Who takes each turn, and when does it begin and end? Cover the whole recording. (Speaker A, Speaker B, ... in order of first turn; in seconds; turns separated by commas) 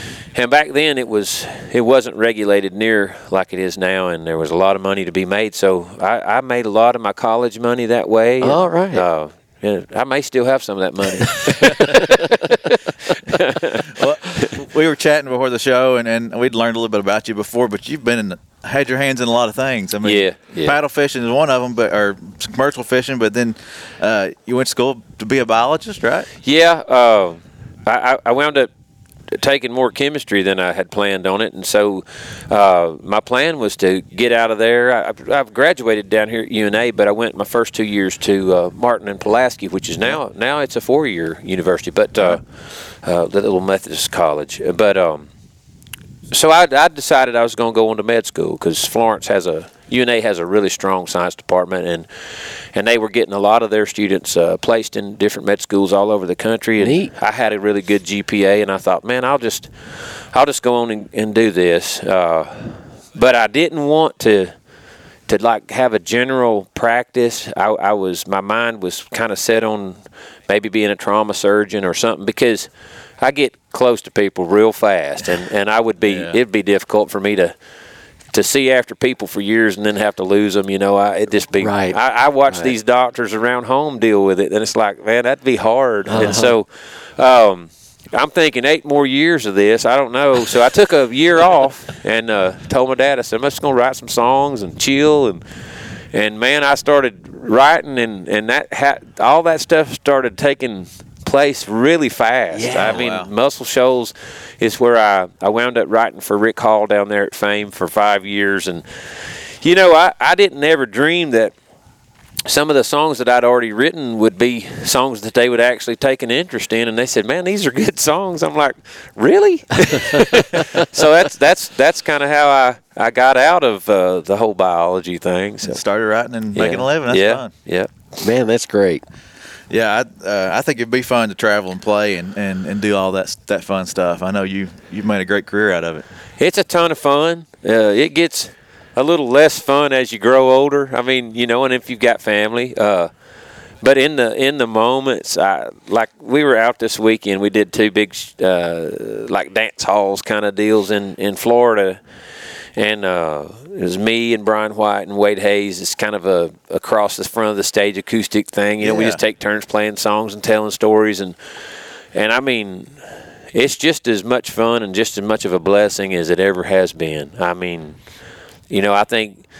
Speaker A: 0.3-14.6, Speaker B: 8.4-9.0, Speaker B: 11.8-12.2, Speaker C: 13.9-26.3, Speaker A: 20.0-20.8, Speaker A: 26.4-28.7, Speaker A: 29.3-42.4, Speaker A: 43.0-45.3, Speaker A: 46.3-64.5, Speaker B: 56.8-57.1, Speaker A: 65.3-77.5, Speaker C: 76.0-76.4, Speaker A: 78.3-95.4, Speaker B: 81.6-82.0, Speaker B: 82.5-82.7, Speaker B: 86.1-86.5, Speaker A: 96.1-111.5, Speaker B: 102.5-103.0, Speaker C: 102.7-103.3, Speaker A: 112.5-125.8, Speaker C: 125.6-127.5, Speaker A: 126.5-127.9, Speaker B: 128.2-129.0, Speaker C: 129.7-136.0, Speaker A: 136.4-143.1, Speaker A: 143.8-152.0, Speaker A: 152.8-161.3, Speaker C: 158.8-159.2, Speaker A: 162.1-168.0, Speaker A: 168.7-169.4